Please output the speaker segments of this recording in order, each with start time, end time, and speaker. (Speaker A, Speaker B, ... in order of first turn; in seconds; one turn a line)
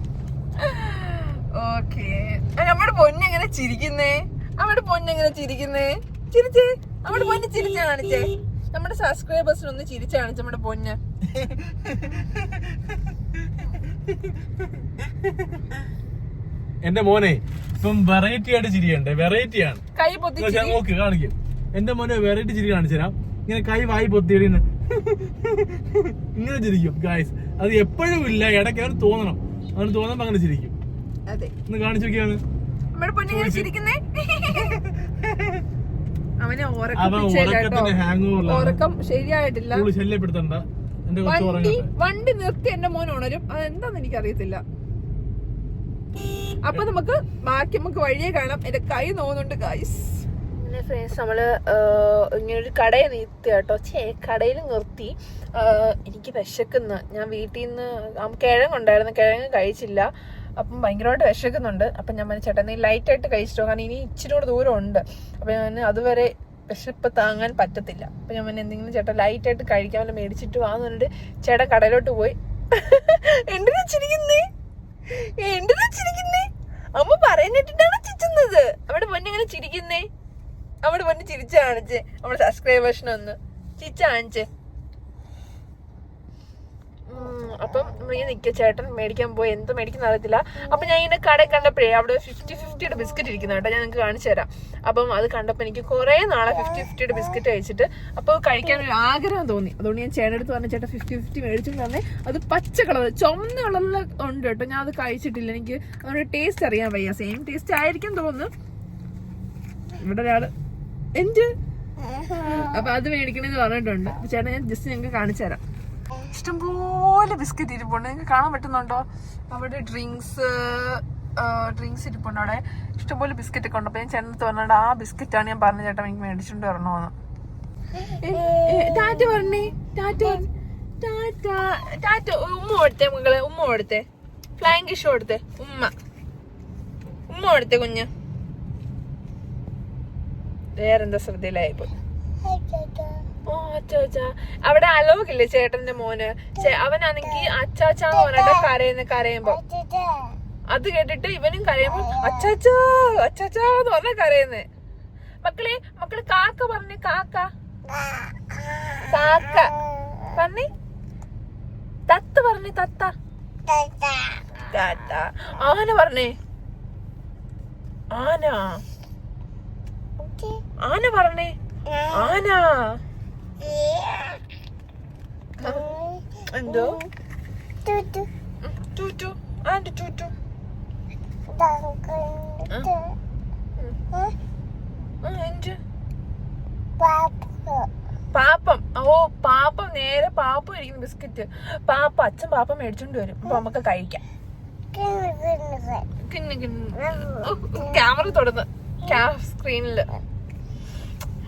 Speaker A: 0.6-11.0
Speaker B: 11.4-12.0
Speaker B: 16.8-19.8
Speaker A: 19.9-20.8
Speaker B: 20.4-30.8
Speaker A: 31.3-31.5
Speaker B: 31.7-32.4
Speaker A: 33.0-34.9
Speaker B: 33.3-33.7
Speaker A: 36.4-39.9
Speaker B: 37.0-38.8
Speaker B: 39.7-41.9
Speaker A: 41.2-44.6
Speaker A: 46.6-74.5
Speaker A: 75.1-80.1
Speaker A: 80.8-84.5
Speaker A: 87.1-108.5
Speaker A: 110.0-110.5
Speaker A: 111.2-111.5
Speaker A: 112.5-115.6
Speaker A: 116.3-127.1
Speaker A: 128.2-130.5
Speaker A: 131.0-134.1
Speaker A: 134.6-135.9
Speaker A: 137.3-138.1
Speaker A: 140.8-141.9
Speaker A: 143.5-149.6
Speaker A: 150.7-154.7
Speaker A: 155.4-157.5
Speaker A: 159.1-159.8
Speaker A: 160.3-160.7
Speaker A: 162.1-163.1
Speaker A: 164.7-166.3
Speaker A: 168.1-168.8
Speaker A: 170.8-173.0
Speaker A: 175.6-175.9
Speaker A: 176.5-177.0
Speaker A: 178.6-180.3
Speaker A: 185.2-185.8
Speaker A: 188.3-194.2
Speaker A: 196.2-200.1